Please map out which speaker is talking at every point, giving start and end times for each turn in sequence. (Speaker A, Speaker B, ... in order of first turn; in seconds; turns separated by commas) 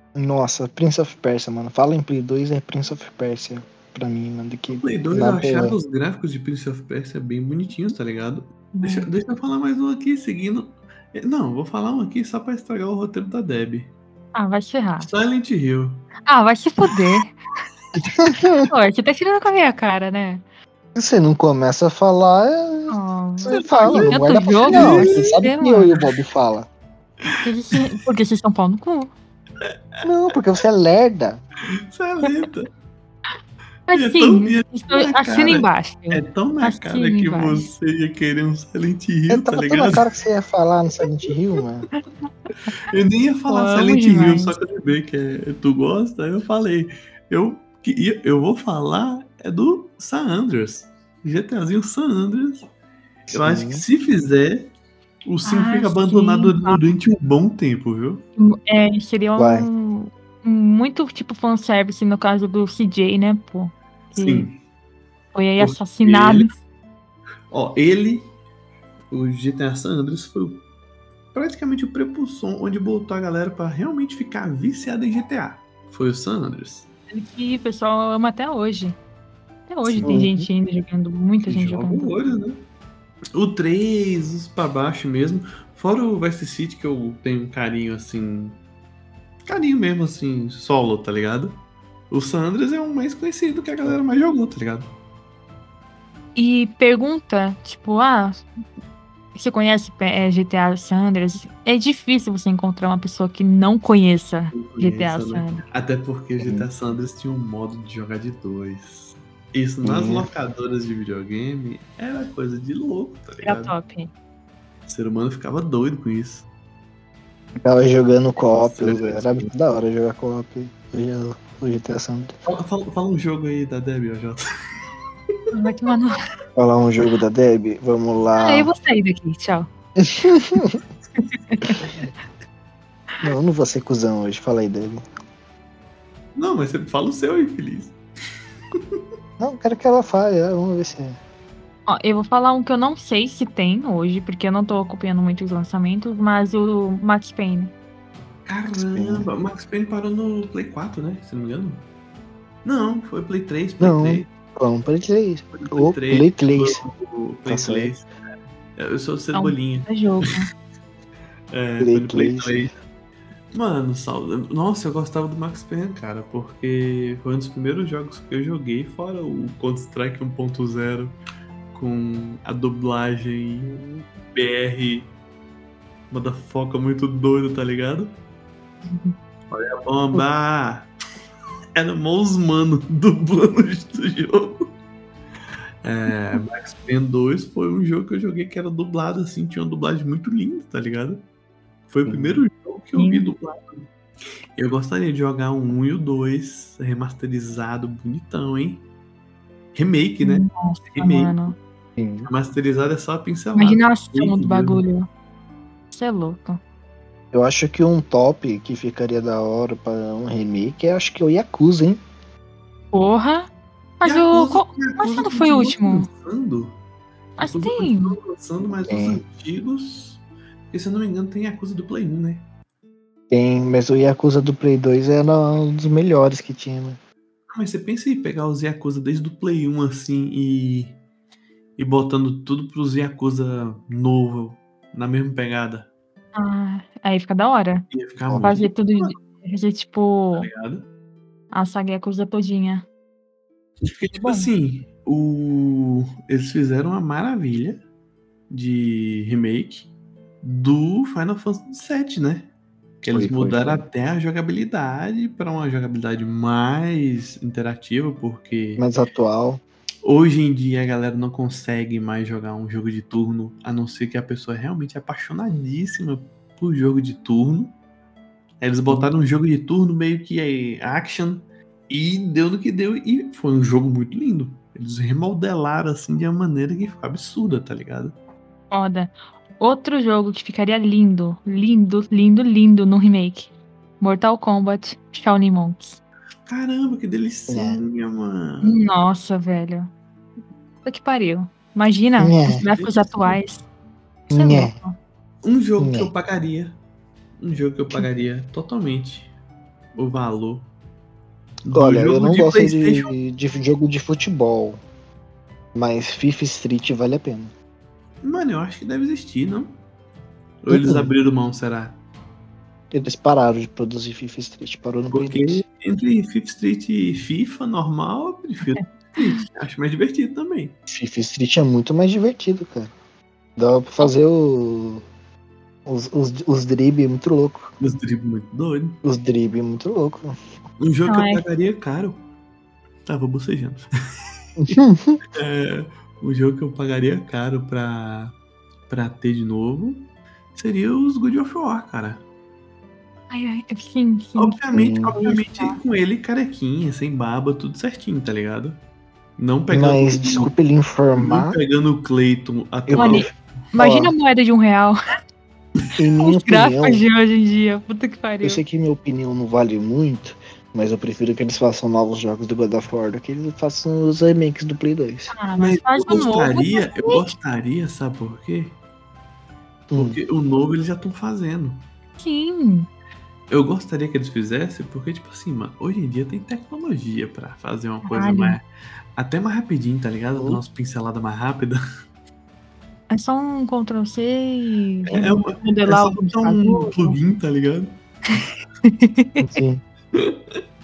Speaker A: 0.1-5.8, Speaker B: 4.7-13.9, Speaker C: 8.7-9.1, Speaker C: 14.3-15.1, Speaker B: 15.0-16.1, Speaker C: 16.3-17.3, Speaker A: 18.1-18.7, Speaker C: 18.7-20.4, Speaker A: 20.9-26.7, Speaker C: 22.9-25.9, Speaker B: 23.5-25.3, Speaker C: 27.4-29.1, Speaker B: 29.6-30.1, Speaker A: 30.0-31.4, Speaker B: 31.9-32.7, Speaker C: 33.9-37.7, Speaker B: 33.9-40.1, Speaker A: 39.3-41.9, Speaker B: 42.8-52.7, Speaker C: 43.5-44.6, Speaker A: 53.3-53.8, Speaker B: 53.3-54.7, Speaker B: 55.2-58.2, Speaker C: 55.4-56.8, Speaker C: 58.4-64.5, Speaker A: 59.4-59.7, Speaker B: 64.2-64.6, Speaker C: 65.3-66.5, Speaker B: 65.6-66.5, Speaker B: 67.5-68.3, Speaker B: 69.1-70.6, Speaker B: 71.3-76.9, Speaker C: 77.1-79.0, Speaker C: 79.7-82.2, Speaker B: 79.8-80.2, Speaker A: 80.0-80.5, Speaker B: 81.5-82.6, Speaker B: 83.3-88.6, Speaker B: 89.4-94.9, Speaker C: 96.3-98.4, Speaker C: 99.3-105.6, Speaker B: 104.5-113.7, Speaker A: 106.4-106.7, Speaker A: 109.8-110.3, Speaker C: 113.4-114.1, Speaker B: 114.8-116.5, Speaker A: 117.6-122.3, Speaker B: 118.6-119.5, Speaker B: 122.5-124.5, Speaker C: 125.5-126.3, Speaker A: 126.5-128.7, Speaker C: 128.4-129.7, Speaker A: 130.0-130.8, Speaker C: 131.2-132.0, Speaker A: 133.2-135.0, Speaker B: 136.3-138.0, Speaker A: 139.4-141.2, Speaker C: 141.9-147.7, Speaker B: 148.4-151.8, Speaker A: 148.7-149.3, Speaker B: 152.6-154.3, Speaker A: 153.8-156.8, Speaker B: 155.5-158.1, Speaker A: 157.4-157.9, Speaker B: 158.8-159.9, Speaker C: 159.3-160.5, Speaker B: 161.5-162.7, Speaker A: 161.8-162.6, Speaker B: 163.5-171.2, Speaker B: 171.7-173.8, Speaker A: 173.7-174.0, Speaker B: 174.3-175.1, Speaker B: 176.1-178.2, Speaker C: 178.9-179.1, Speaker B: 179.5-180.9, Speaker B: 181.7-184.7, Speaker B: 185.8-191.2, Speaker B: 191.9-193.9, Speaker A: 192.1-192.4, Speaker C: 192.9-193.3, Speaker B: 194.6-198.8, Speaker B: 199.7-201.4, Speaker C: 200.2-201.6, Speaker A: 202.0-202.3, Speaker B: 202.2-204.8, Speaker C: 203.6-205.1, Speaker C: 205.9-206.6, Speaker A: 207.3-212.0, Speaker C: 212.9-216.1, Speaker B: 214.0-216.8, Speaker C: 217.4-218.2, Speaker B: 217.4-222.4, Speaker A: 218.8-219.2, Speaker A: 223.3-227.0, Speaker B: 227.5-231.0, Speaker B: 231.8-235.9, Speaker C: 236.3-237.9, Speaker B: 237.9-239.2, Speaker A: 238.3-238.6, Speaker C: 238.4-240.5, Speaker B: 240.3-240.8, Speaker C: 241.5-242.8, Speaker B: 243.8-247.8, Speaker C: 244.1-244.5, Speaker B: 248.5-249.9, Speaker B: 250.4-252.5, Speaker B: 253.0-258.8, Speaker A: 253.1-253.8, Speaker A: 258.8-259.6, Speaker B: 260.0-267.7, Speaker B: 268.6-278.1, Speaker C: 278.7-286.0, Speaker B: 286.5-288.8, Speaker A: 287.5-287.8, Speaker C: 288.6-289.9, Speaker C: 290.8-293.6, Speaker A: 292.2-292.7, Speaker B: 292.7-293.4, Speaker A: 294.3-294.7, Speaker C: 294.3-294.9, Speaker B: 295.4-296.8, Speaker A: 295.8-296.1, Speaker B: 297.4-299.3, Speaker B: 299.9-300.7, Speaker B: 301.6-303.1, Speaker A: 301.7-304.8, Speaker A: 305.7-307.5, Speaker B: 308.2-309.8, Speaker B: 310.6-312.0, Speaker A: 310.7-311.1, Speaker A: 312.9-315.6, Speaker B: 315.1-320.7, Speaker A: 320.9-322.9, Speaker A: 323.6-325.0, Speaker A: 325.9-327.7, Speaker B: 327.8-329.0, Speaker A: 329.0-330.3, Speaker B: 330.8-332.2, Speaker C: 331.1-331.4, Speaker B: 333.1-333.9, Speaker A: 334.6-335.2, Speaker B: 335.4-338.4, Speaker B: 338.9-342.2, Speaker C: 343.3-344.6, Speaker B: 344.4-348.8, Speaker A: 344.7-345.2, Speaker C: 345.1-345.8, Speaker B: 349.4-350.5, Speaker A: 349.7-351.6, Speaker B: 351.1-353.3, Speaker A: 352.9-354.1, Speaker C: 352.9-355.0, Speaker A: 356.0-357.0, Speaker C: 356.2-358.6, Speaker A: 358.4-365.3, Speaker C: 365.3-367.2, Speaker B: 365.6-368.8, Speaker A: 369.9-370.2, Speaker B: 369.9-371.9, Speaker C: 372.2-372.9, Speaker B: 373.5-378.6, Speaker C: 378.0-378.6, Speaker B: 379.1-381.8, Speaker A: 380.4-380.6, Speaker C: 383.1-387.2, Speaker B: 385.1-388.0, Speaker C: 388.8-389.4, Speaker A: 389.4-389.8, Speaker B: 390.1-390.6